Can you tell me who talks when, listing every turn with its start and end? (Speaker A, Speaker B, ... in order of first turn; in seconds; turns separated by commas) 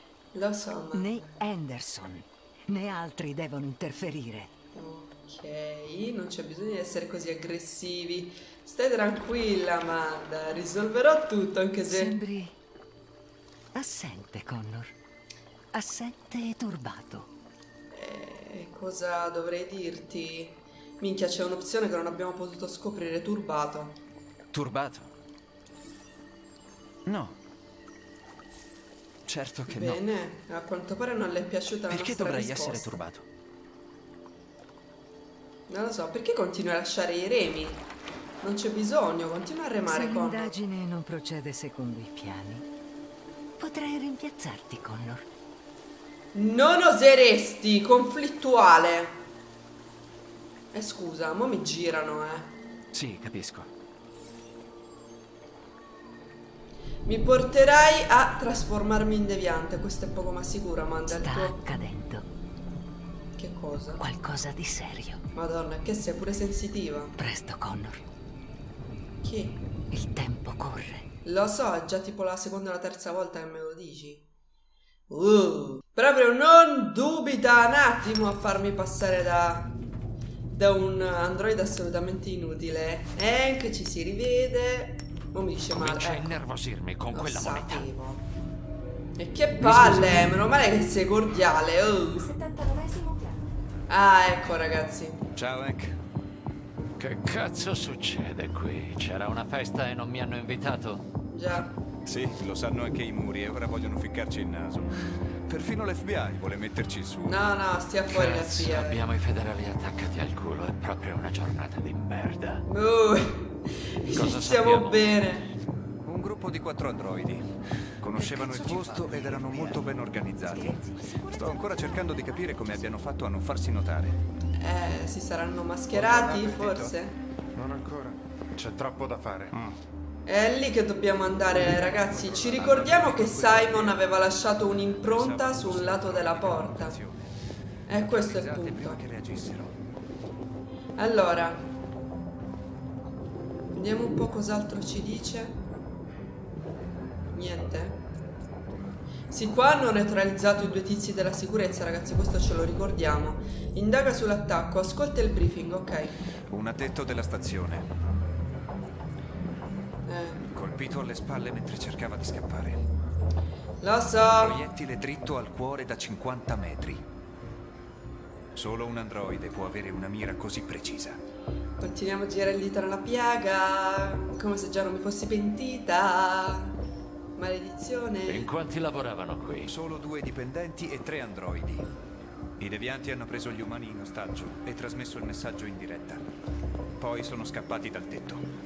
Speaker A: 0.3-1.4, Speaker B: 0.9-4.5, Speaker A: 4.8-12.2, Speaker B: 11.9-12.5, Speaker B: 13.8-14.9, Speaker B: 15.7-17.3, Speaker A: 17.9-24.0, Speaker C: 24.5-25.1, Speaker C: 27.1-27.4, Speaker C: 29.3-30.0, Speaker A: 29.7-33.0, Speaker C: 31.9-33.2, Speaker A: 35.7-37.9, Speaker A: 38.4-40.5, Speaker B: 39.9-42.6, Speaker B: 43.6-45.2, Speaker A: 46.3-49.2, Speaker A: 50.7-52.5, Speaker C: 52.9-53.7, Speaker A: 57.1-61.6, Speaker B: 61.1-62.2, Speaker A: 63.4-64.0, Speaker B: 64.0-65.2, Speaker A: 65.3-67.2, Speaker B: 67.2-68.0, Speaker A: 69.2-69.6, Speaker B: 69.9-71.1, Speaker A: 71.2-74.2, Speaker A: 75.1-79.8, Speaker A: 80.5-86.4, Speaker D: 85.8-87.9, Speaker A: 87.1-88.2, Speaker A: 89.2-92.4, Speaker E: 89.6-90.2, Speaker B: 92.5-93.3, Speaker A: 93.9-95.2, Speaker E: 95.3-96.0, Speaker D: 97.0-101.0, Speaker A: 101.3-101.7, Speaker E: 102.0-107.4, Speaker A: 107.3-109.1, Speaker D: 108.1-112.6, Speaker A: 112.7-115.5, Speaker D: 114.1-115.0, Speaker E: 116.0-117.4, Speaker E: 118.0-120.8, Speaker C: 118.2-119.8, Speaker B: 120.4-123.0, Speaker E: 121.3-124.2, Speaker A: 124.6-127.2, Speaker E: 125.9-127.0, Speaker F: 127.6-129.8, Speaker A: 130.3-137.0, Speaker E: 131.7-134.1, Speaker E: 134.9-137.3, Speaker A: 137.9-139.0, Speaker E: 138.0-139.8, Speaker A: 141.0-141.7, Speaker A: 143.8-145.6, Speaker A: 147.3-148.0, Speaker A: 149.3-156.2, Speaker E: 156.5-157.9, Speaker A: 160.1-160.4, Speaker E: 160.5-162.8, Speaker A: 163.8-164.6, Speaker E: 164.3-167.0, Speaker E: 168.6-171.2, Speaker A: 171.8-176.7, Speaker A: 177.4-178.5, Speaker D: 178.3-179.7, Speaker E: 179.7-181.9, Speaker E: 182.6-186.2, Speaker E: 187.0-188.4